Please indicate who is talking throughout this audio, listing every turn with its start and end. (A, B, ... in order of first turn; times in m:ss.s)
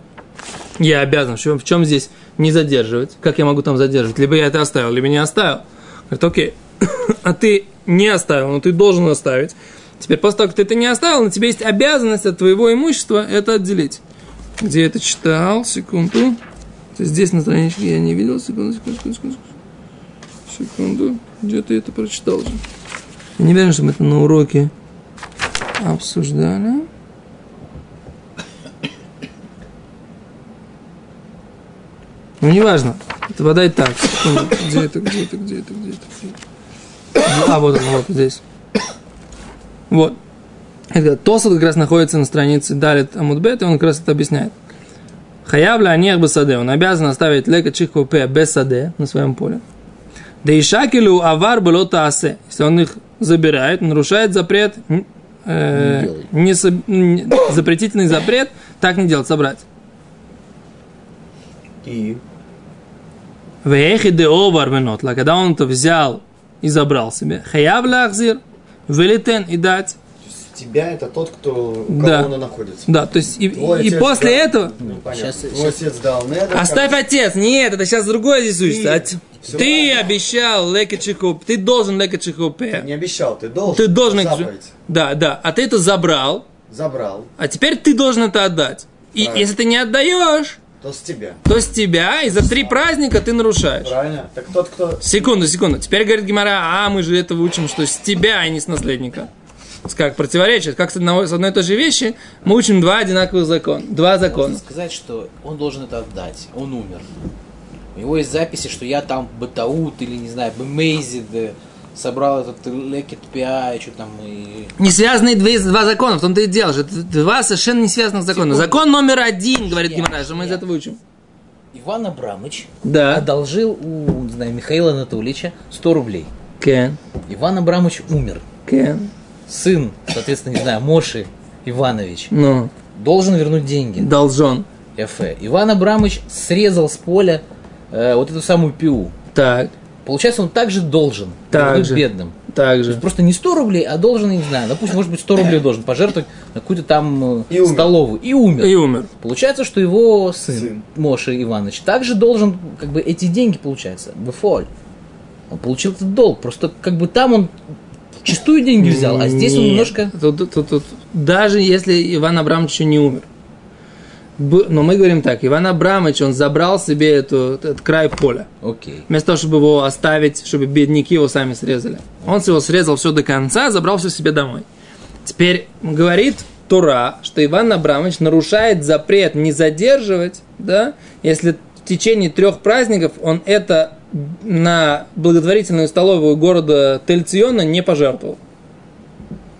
0:00.8-0:14.0 A
0:14.6-0:16.4 A
0:17.0-0:19.4 A
0:20.5-0:22.6 A
0:23.4-0:24.7 A
0:25.8-0:26.9 A
0:32.4-0:36.4 A
0:37.2-0:38.4 A
0:39.9-0:40.2 A
0:40.9-0:44.5 A
0:45.4-0:49.6 A
0:50.4-0:59.6 A
0:55.7-0:56.3 B
1:01.8-1:02.2 C
1:03.6-1:10.0 A
1:10.2-1:13.0 C
1:11.9-1:12.3 A
1:12.9-1:14.7 A
1:13.5-1:17.0 C
1:14.8-1:15.8 B
1:16.5-1:22.9 A
1:18.6-1:20.1 C
1:22.7-1:24.7 C
1:23.7-1:26.5 A
1:26.7-1:27.3 C
1:27.4-1:30.6 A
1:29.2-1:29.5 C
1:30.8-1:31.4 C
1:31.5-1:33.9 A
1:32.3-1:32.8 C
1:33.8-1:35.3 C
1:35.0-1:39.3 A
1:39.9-1:44.6 A
1:44.2-1:47.1 B
1:48.0-1:54.7 B
1:54.8-2:01.0 A
1:58.3-1:58.9 B
1:59.6-2:00.6 B
2:01.7-2:06.3 B
2:02.8-2:03.2 A
2:06.6-2:07.0 A
2:07.3-2:08.5 B
2:08.7-2:09.1 A
2:09.5-2:12.3 B
2:12.3-2:12.7 A
2:12.9-2:14.1 B
2:14.0-2:14.6 A
2:15.0-2:19.1 B
2:19.3-2:19.7 A
2:20.0-2:22.4 B
2:21.5-2:23.0 A
2:22.9-2:34.7 B
2:27.5-2:28.0 C
2:28.6-2:29.1 A
2:30.5-2:30.8 C
2:35.5-2:37.5 B
2:38.2-2:40.1 B
2:38.8-2:43.2 A
2:44.4-2:48.5 A
2:48.6-2:49.1 B
2:49.1-2:54.6 A
2:55.2-3:08.4 A